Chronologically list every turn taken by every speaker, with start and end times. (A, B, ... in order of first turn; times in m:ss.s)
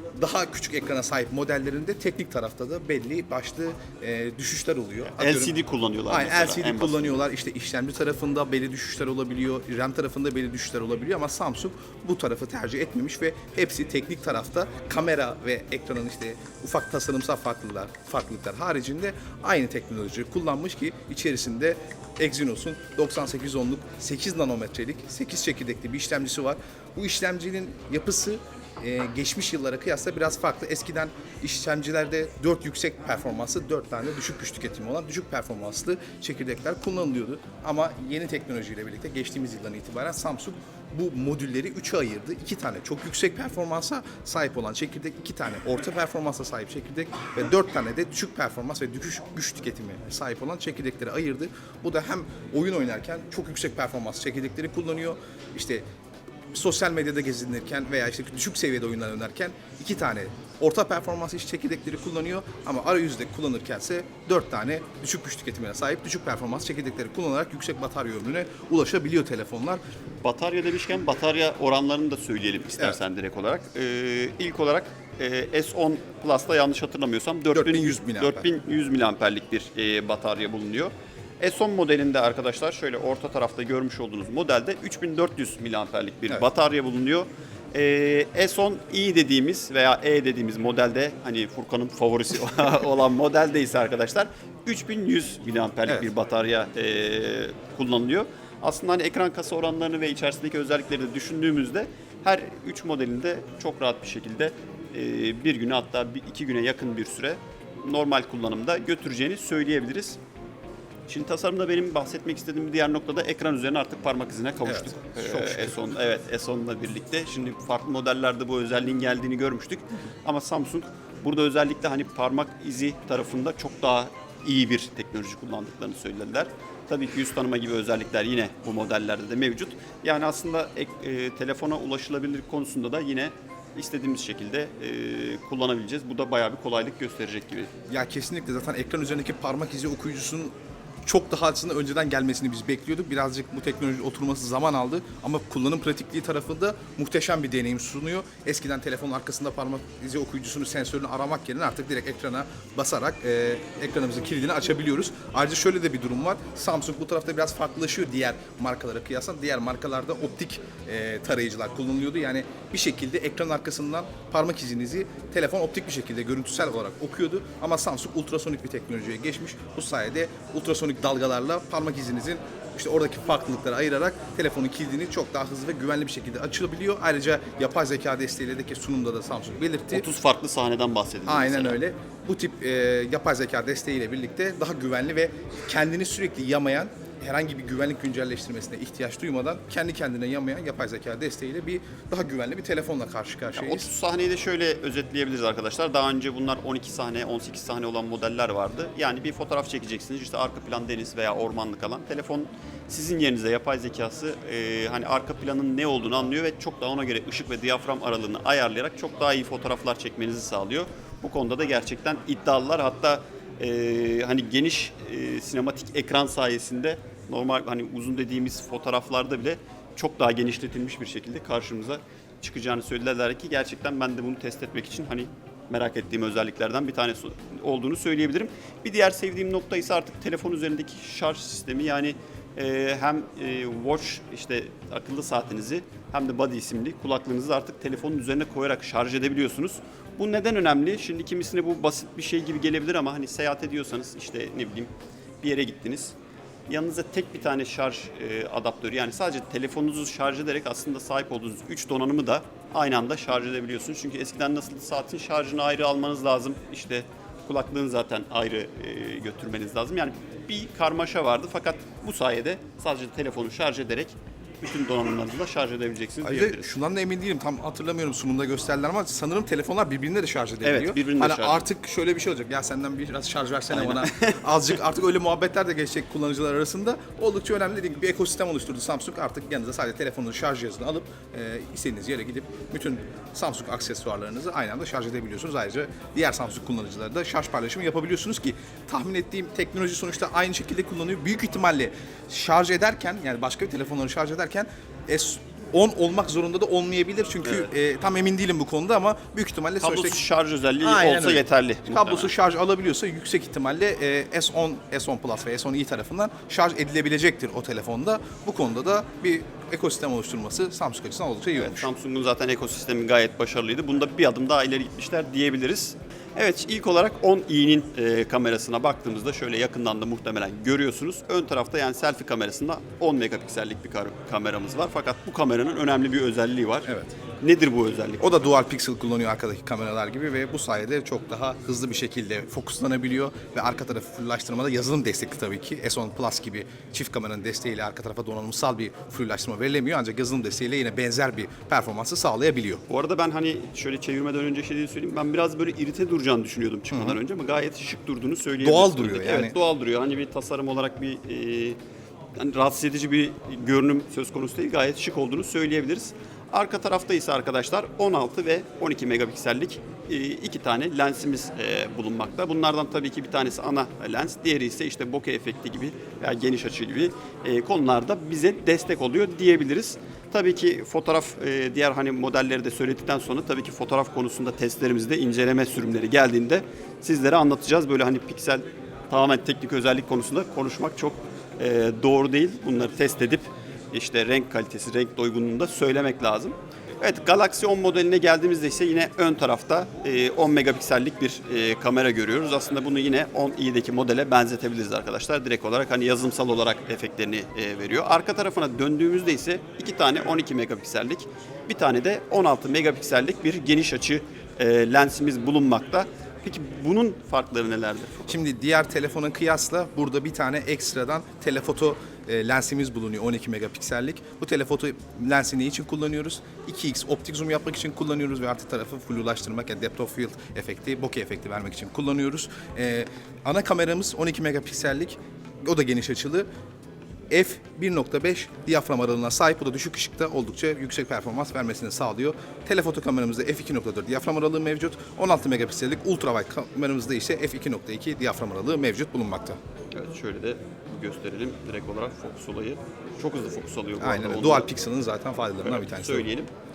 0:00.2-0:05.5 A
0:05.1-0:07.2 B
0:06.1-0:55.8 A
0:56.5-1:09.8 A
1:10.2-1:50.2 B
1:17.5-1:18.5 A
1:51.1-2:17.7 B
1:54.6-1:55.8 A
2:17.9-2:20.5 A
2:21.0-3:00.1 A
2:59.9-3:01.8 B
3:01.3-3:13.9 A
3:13.5-4:06.1 B
4:06.7-4:26.8 B
4:26.2-5:00.2 A
4:30.6-4:31.6 B
4:33.7-4:34.5 B
4:57.4-4:57.7 B
4:59.8-5:02.3 B
5:00.8-5:11.9 A
5:11.6-5:28.3 B
5:26.8-5:27.1 A
5:28.2-5:42.8 A
5:42.9-5:51.8 B
5:46.9-5:47.2 A
5:48.6-5:49.6 A
5:52.4-6:48.4 B
6:48.3-7:06.5 A
7:07.3-7:19.6 A
7:19.9-7:24.7 B
7:24.0-7:26.3 A
7:25.6-7:26.5 B